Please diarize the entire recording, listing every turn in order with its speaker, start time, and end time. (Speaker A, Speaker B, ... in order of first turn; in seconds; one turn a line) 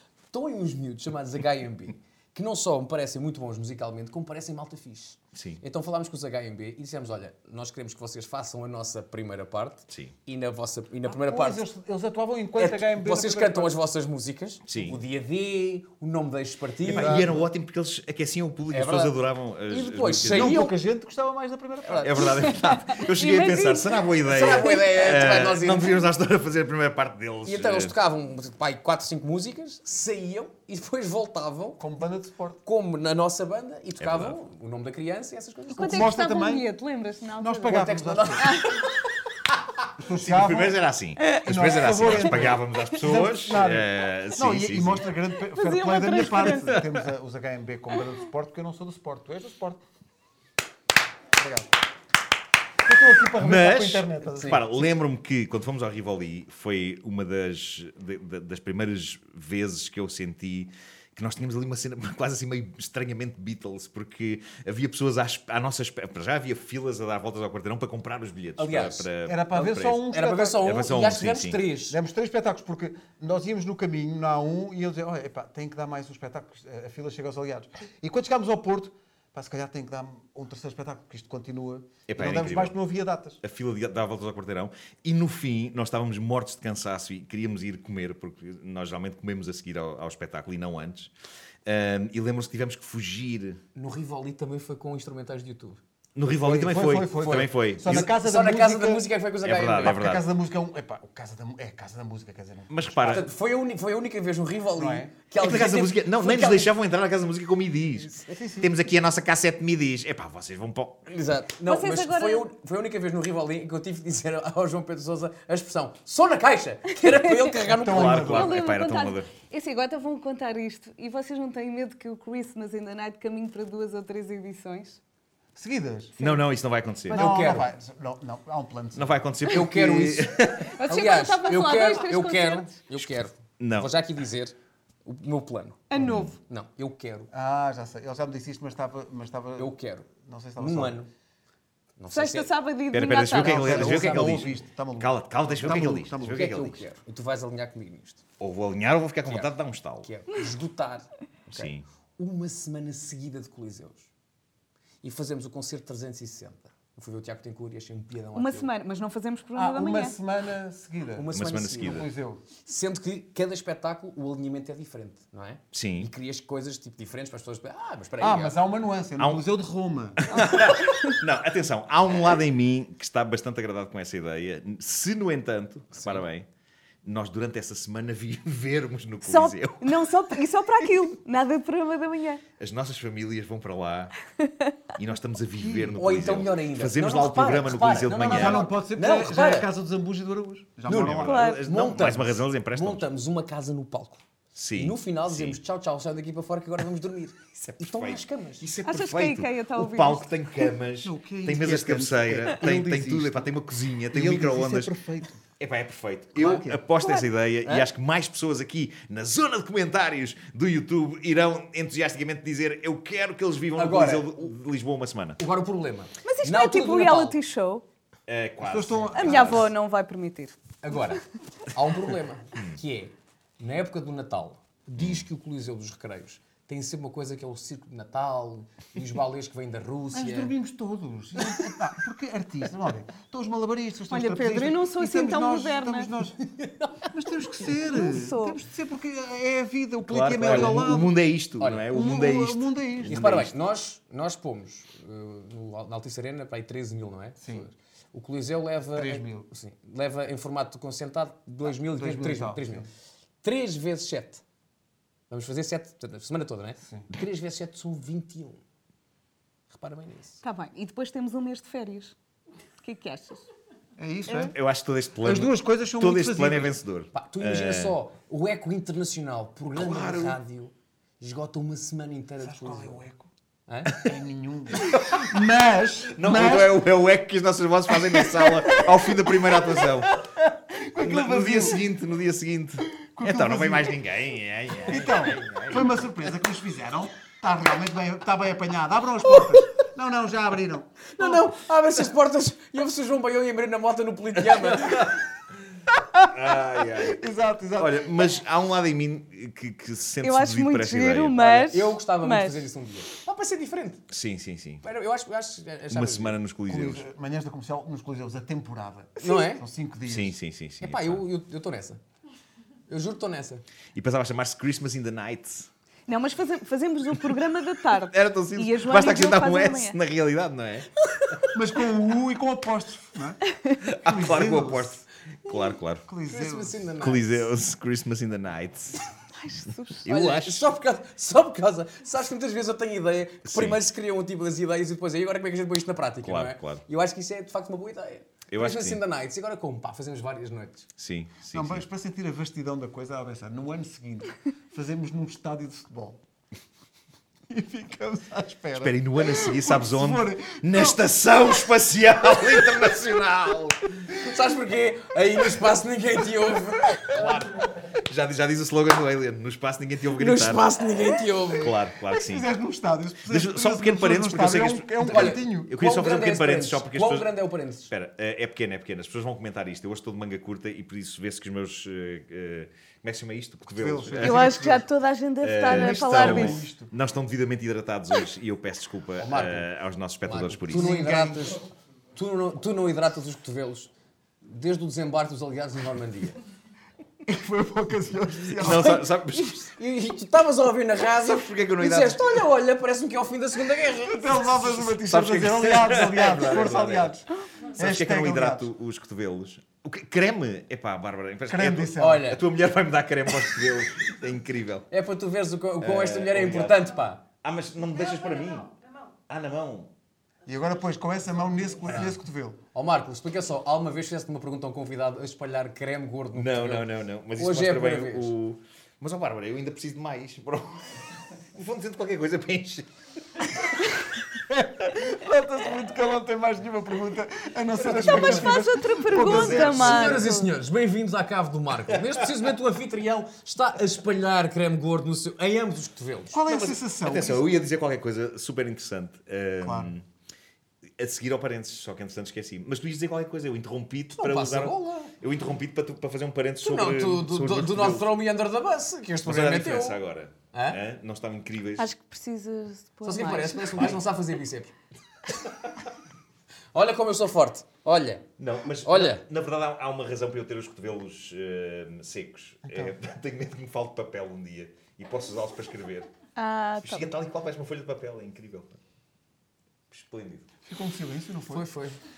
Speaker A: 0.3-11.6
Speaker B: 5.3-5.6
Speaker B: 9.9-10.1
Speaker C: 11.1-13.8
Speaker A: 12.6-17.3
Speaker B: 14.7-15.0
Speaker B: 16.8-20.6
Speaker C: 16.9-17.5
Speaker A: 18.7-20.7
Speaker C: 20.2-22.6
Speaker B: 21.9-28.0
Speaker D: 22.2-25.0
Speaker A: 24.2-26.0
Speaker A: 27.4-31.8
Speaker C: 31.8-32.6
Speaker A: 32.6-36.2
Speaker B: 34.0-34.4
Speaker D: 35.7-37.9
Speaker C: 35.8-36.7
Speaker C: 37.4-38.6
Speaker A: 37.7-38.7
Speaker D: 38.4-38.8
Speaker C: 40.0-40.8
Speaker B: 40.2-45.1
Speaker C: 41.3-49.8
Speaker D: 45.5-46.7
Speaker B: 46.6-46.8
Speaker C: 51.4-51.7
Speaker C: 52.9-54.8
Speaker B: 53.4-71.6
Speaker A: 54.3-54.6
Speaker A: 68.6-69.1
Speaker C: 69.2-70.6
Speaker A: 70.1-72.0
Speaker C: 71.9-83.4
Speaker B: 82.1-82.8
Speaker B: 83.4-91.1
Speaker B: 91.7-93.6
Speaker A: 93.8-95.8
Speaker B: 96.2-98.1
Speaker C: 96.3-99.1
Speaker A: 97.2-100.0
Speaker B: 99.4-100.3
Speaker C: 99.8-103.2
Speaker B: 102.7-103.3
Speaker A: 103.0-106.7
Speaker C: 104.7-105.1
Speaker B: 105.4-111.1
Speaker C: 108.3-108.8
Speaker A: 111.1-118.4
Speaker D: 111.7-112.5
Speaker D: 117.1-117.5
Speaker C: 117.7-118.6
Speaker B: 117.8-119.3
Speaker D: 118.3-125.0
Speaker C: 125.6-126.2
Speaker D: 126.2-126.4
Speaker B: 126.2-127.3
Speaker A: 127.1-127.7
Speaker C: 127.1-129.2
Speaker B: 128.9-130.8
Speaker A: 129.5-137.3
Speaker D: 130.6-132.7
Speaker B: 133.0-133.9
Speaker D: 135.9-136.3
Speaker B: 136.0-136.3
Speaker C: 137.3-141.0
Speaker A: 139.6-141.1
Speaker A: 142.0-142.5
Speaker D: 142.1-143.7
Speaker B: 142.9-146.8
Speaker C: 143.4-146.5
Speaker A: 143.5-144.5
Speaker A: 146.2-148.2
Speaker B: 148.4-150.1
Speaker A: 149.3-154.1
Speaker B: 151.5-151.8
Speaker A: 155.0-158.7
Speaker D: 158.3-160.2
Speaker C: 159.6-162.4
Speaker A: 161.2-162.1
Speaker B: 161.3-162.1
Speaker A: 162.6-168.6
Speaker B: 165.7-166.1
Speaker C: 168.2-170.5
Speaker B: 169.2-169.4
Speaker B: 170.2-176.5
Speaker D: 170.8-171.1
Speaker A: 175.9-176.2
Speaker B: 177.0-180.0
Speaker D: 179.2-182.4
Speaker B: 182.6-184.1
Speaker B: 184.9-188.7
Speaker C: 185.6-186.0
Speaker A: 185.9-189.7
Speaker C: 188.2-191.5
Speaker A: 190.9-194.2
Speaker B: 190.9-193.1
Speaker D: 191.2-191.6
Speaker B: 194.6-195.6
Speaker A: 194.8-198.7
Speaker B: 197.7-205.0
Speaker D: 198.8-200.3
Speaker C: 201.0-203.5
Speaker C: 204.1-205.4
Speaker B: 205.6-215.4
Speaker C: 206.4-206.8
Speaker D: 207.0-207.3
Speaker A: 213.8-214.4
Speaker A: 215.4-217.4
Speaker D: 216.2-217.8
Speaker B: 218.3-219.7
Speaker C: 218.6-219.7
Speaker D: 219.2-220.6
Speaker A: 220.8-230.5
Speaker B: 225.0-225.2
Speaker C: 230.1-236.4
Speaker D: 234.1-236.1
Speaker A: 236.5-237.1
Speaker C: 237.1-241.2
Speaker D: 237.8-238.6
Speaker B: 240.1-243.5
Speaker A: 240.4-240.8
Speaker A: 241.6-241.9
Speaker C: 241.9-243.3
Speaker A: 243.1-252.9
Speaker C: 247.4-247.7
Speaker C: 248.9-249.5
Speaker C: 251.8-252.9
Speaker A: 253.4-254.4
Speaker A: 255.3-258.6
Speaker A: 259.7-260.4
Speaker D: 260.4-262.1
Speaker D: 262.8-263.4
Speaker C: 264.0-264.6
Speaker B: 264.5-268.0
Speaker C: 265.2-266.8
Speaker A: 267.1-273.0
Speaker B: 269.7-270.4
Speaker C: 272.4-273.3
Speaker A: 273.7-274.1
Speaker C: 274.0-276.8
Speaker B: 274.8-275.3
Speaker B: 276.1-280.2
Speaker C: 277.9-281.8
Speaker B: 281.0-286.0
Speaker C: 283.0-284.0
Speaker C: 284.8-291.5
Speaker A: 291.1-295.2
Speaker B: 294.6-295.2
Speaker C: 296.1-298.3
Speaker B: 296.3-297.2
Speaker B: 297.8-301.8
Speaker D: 300.2-302.6
Speaker A: 301.7-304.1
Speaker B: 304.1-304.8
Speaker A: 304.8-306.4
Speaker B: 305.9-307.1
Speaker C: 306.7-310.4
Speaker A: 309.2-309.6
Speaker B: 310.1-311.2
Speaker A: 310.8-312.0
Speaker A: 312.9-313.6
Speaker B: 313.9-315.7
Speaker D: 316.1-320.0
Speaker B: 318.0-320.9
Speaker C: 321.5-324.9
Speaker B: 323.8-326.1
Speaker C: 326.1-326.9
Speaker A: 326.3-327.4
Speaker B: 327.0-329.1
Speaker D: 329.4-330.1
Speaker B: 330.0-330.7
Speaker A: 330.1-340.9
Speaker B: 333.4-333.8
Speaker B: 336.2-336.8
Speaker B: 338.5-339.0
Speaker B: 341.0-341.9
Speaker C: 341.5-346.2
Speaker C: 347.5-351.0
Speaker B: 348.8-353.8
Speaker A: 354.1-357.1
Speaker B: 357.1-360.7
Speaker A: 360.2-361.8
Speaker B: 361.5-362.5
Speaker C: 362.1-365.7
Speaker B: 363.2-367.3
Speaker A: 365.0-367.9
Speaker B: 367.9-374.7
Speaker C: 373.7-374.9
Speaker D: 374.2-376.6
Speaker B: 375.4-381.0
Speaker C: 375.6-376.9
Speaker A: 379.2-379.7
Speaker A: 380.2-383.9
Speaker C: 380.7-381.6
Speaker A: 384.4-386.4
Speaker C: 387.2-389.0
Speaker B: 388.6-389.7
Speaker A: 388.6-394.9
Speaker B: 391.1-392.5
Speaker C: 394.1-398.7
Speaker B: 395.0-397.1
Speaker B: 397.8-404.9
Speaker C: 401.5-402.3
Speaker A: 402.0-402.4
Speaker A: 404.9-407.2
Speaker B: 405.8-406.9
Speaker B: 407.4-408.7
Speaker B: 409.3-409.9
Speaker C: 410.5-412.6
Speaker A: 411.9-412.2
Speaker A: 412.7-418.3
Speaker B: 416.3-421.0
Speaker B: 421.5-423.6
Speaker C: 424.5-430.2
Speaker A: 427.9-428.4
Speaker D: 427.9-430.5
Speaker B: 429.1-430.1
Speaker A: 429.4-436.7
Speaker C: 436.3-437.5
Speaker B: 436.5-440.1
Speaker C: 439.6-439.9
Speaker B: 441.0-448.1
Speaker A: 444.1-445.1
Speaker A: 446.6-450.0
Speaker B: 449.2-451.9
Speaker A: 450.5-450.8
Speaker D: 451.8-453.9
Speaker A: 453.0-454.7
Speaker A: 456.7-458.3
Speaker B: 458.4-466.1
Speaker A: 458.8-459.2
Speaker C: 462.7-462.9
Speaker D: 466.4-467.1
Speaker B: 466.8-468.8
Speaker B: 469.9-470.5
Speaker C: 470.6-471.7
Speaker A: 471.5-472.0